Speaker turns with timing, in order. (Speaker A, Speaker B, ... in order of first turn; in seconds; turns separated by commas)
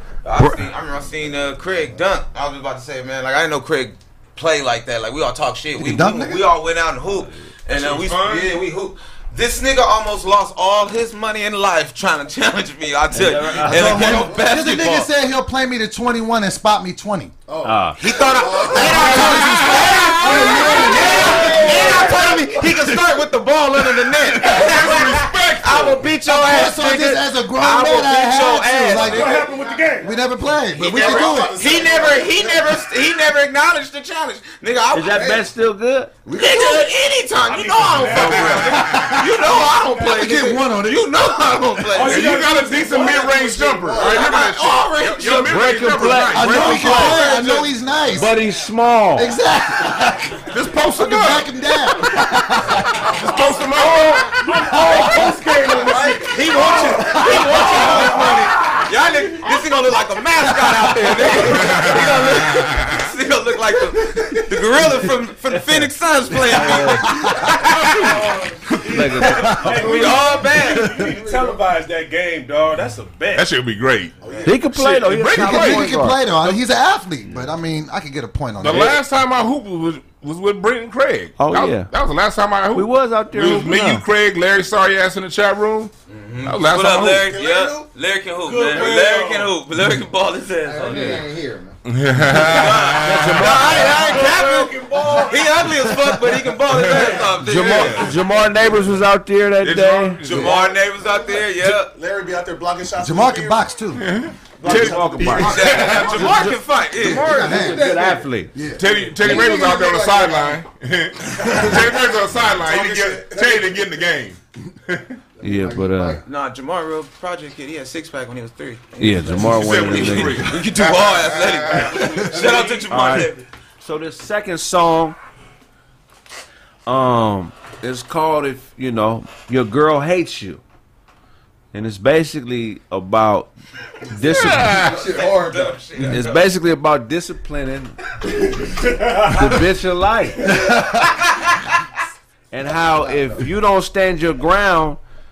Speaker A: 0.2-15.1, Speaker B: 5.8-6.5, Speaker C: 7.7-8.2, Speaker D: 13.1-14.3, Speaker B: 13.6-17.4, Speaker E: 17.5-19.7, Speaker D: 17.6-18.0, Speaker A: 18.0-29.6, Speaker B: 18.6-22.4, Speaker F: 18.8-22.4, Speaker E: 20.9-22.2, Speaker C: 21.2-22.3, Speaker F: 24.2-26.1, Speaker B: 26.2-31.6, Speaker C: 28.9-30.1, Speaker E: 30.8-32.8, Speaker A: 30.8-35.5, Speaker F: 30.9-31.3, Speaker D: 34.9-36.1, Speaker B: 36.3-36.9, Speaker A: 36.3-42.5, Speaker C: 37.4-40.4, Speaker F: 38.2-38.8, Speaker B: 38.5-39.2, Speaker B: 39.8-41.1, Speaker C: 41.9-43.7, Speaker F: 42.0-47.6, Speaker E: 43.0-44.0, Speaker B: 44.0-44.2, Speaker A: 44.0-45.7, Speaker D: 45.4-47.3, Speaker B: 46.3-48.3, Speaker A: 46.4-47.7, Speaker D: 48.1-49.4, Speaker B: 49.2-52.9, Speaker F: 50.5-52.0, Speaker F: 53.1-56.2, Speaker C: 53.9-58.4, Speaker A: 55.8-68.2, Speaker F: 57.7-58.8, Speaker F: 61.2-63.0, Speaker D: 61.8-62.2, Speaker D: 66.4-67.4, Speaker F: 67.6-68.1, Speaker C: 68.0-73.5, Speaker D: 68.9-69.7, Speaker A: 69.5-71.0, Speaker E: 71.0-71.5, Speaker F: 73.3-74.2, Speaker C: 74.2-74.6, Speaker E: 74.2-74.6, Speaker D: 74.5-76.2, Speaker F: 74.7-76.6, Speaker B: 75.2-79.0, Speaker F: 78.6-85.9, Speaker D: 81.4-81.9, Speaker D: 82.7-84.0, Speaker A: 86.1-91.3, Speaker F: 86.4-87.4, Speaker E: 87.3-87.9, Speaker C: 88.4-89.5, Speaker G: 90.7-91.8, Speaker F: 91.9-94.0, Speaker A: 92.3-98.1, Speaker D: 92.9-94.3, Speaker C: 93.5-96.0, Speaker F: 96.7-98.0, Speaker C: 96.7-97.3, Speaker D: 97.4-100.2, Speaker F: 99.6-100.6, Speaker A: 100.2-102.0, Speaker E: 100.3-103.7, Speaker B: 102.9-104.2, Speaker F: 104.0-106.2, Speaker E: 104.6-106.1, Speaker D: 104.6-108.5, Speaker B: 105.4-105.8, Speaker A: 105.4-107.5, Speaker G: 107.0-110.6, Speaker B: 107.0-107.9, Speaker B: 108.6-110.4, Speaker F: 108.8-115.2, Speaker E: 111.8-113.7, Speaker G: 115.4-116.2, Speaker D: 115.4-116.2, Speaker A: 116.2-123.5, Speaker D: 119.0-120.6, Speaker F: 119.5-122.4, Speaker G: 121.2-121.9, Speaker D: 122.9-125.2, Speaker D: 126.9-130.6, Speaker D: 131.7-133.5, Speaker D: 134.1-134.8, Speaker F: 134.3-134.8, Speaker A: 134.8-136.5, Speaker B: 134.8-135.6, Speaker D: 136.0-138.0, Speaker D: 139.2-140.5, Speaker D: 142.5-145.0, Speaker B: 143.0-143.4